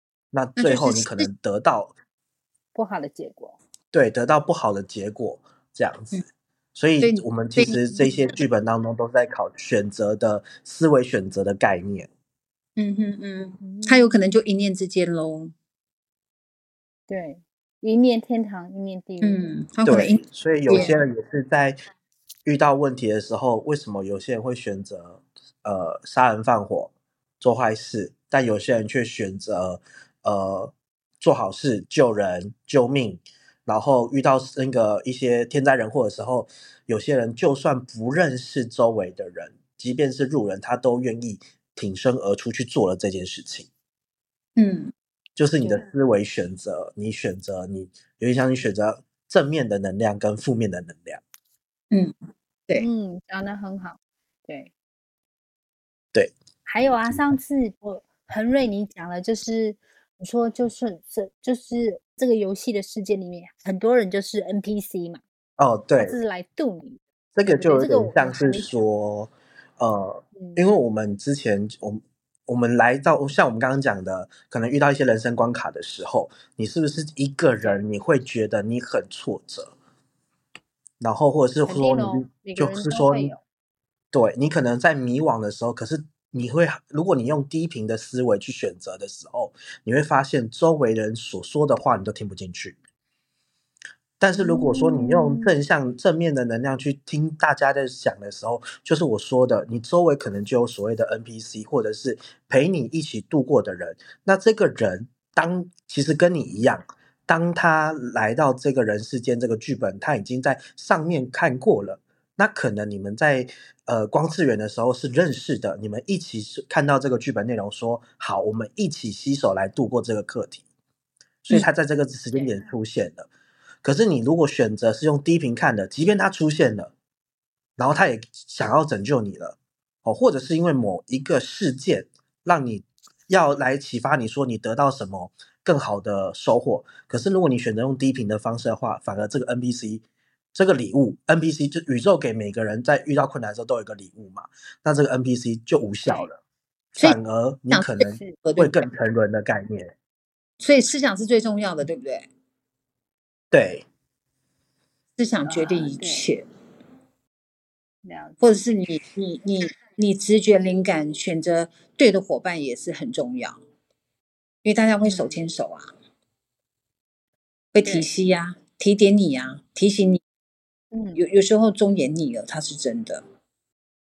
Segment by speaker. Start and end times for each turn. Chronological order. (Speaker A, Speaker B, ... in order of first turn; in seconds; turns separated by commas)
Speaker A: 0.3-1.9, Speaker B: 0.6-1.3, Speaker C: 2.7-3.6, Speaker A: 3.9-6.2, Speaker A: 6.7-12.1, Speaker B: 7.0-7.8, Speaker B: 12.8-15.5, Speaker C: 13.6-14.1, Speaker C: 17.1-19.5, Speaker B: 19.2-21.0, Speaker A: 19.9-21.8, Speaker C: 20.7-21.0, Speaker A: 22.4-43.7, Speaker B: 44.6-44.9, Speaker A: 45.4-51.2, Speaker C: 45.6-45.9, Speaker C: 52.8-54.7, Speaker C: 56.6-65.2, Speaker A: 65.6-66.2, Speaker C: 66.0-68.7, Speaker A: 67.3-79.7, Speaker C: 70.3-70.6, Speaker C: 77.5-77.8, Speaker A: 81.0-83.3, Speaker C: 81.6-83.4, Speaker A: 84.1-92.8, Speaker A: 94.2-120.6, Speaker C: 94.3-95.5, Speaker A: 121.4-123.3, Speaker C: 122.3-122.7, Speaker A: 123.8-126.9, Speaker A: 127.8-140.0, Speaker A: 140.5-146.4, Speaker C: 146.0-146.3, Speaker A: 146.9-149.9, Speaker B: 147.0-148.8, Speaker B: 150.6-152.3, Speaker A: 153.5-153.8, Speaker B: 155.2-156.4, Speaker C: 155.4-156.3, Speaker C: 158.0-158.6, Speaker B: 158.4-163.6, Speaker B: 164.6-165.9, Speaker C: 165.0-165.4, Speaker B: 167.7-170.2, Speaker C: 170.9-171.2, Speaker B: 171.1-173.2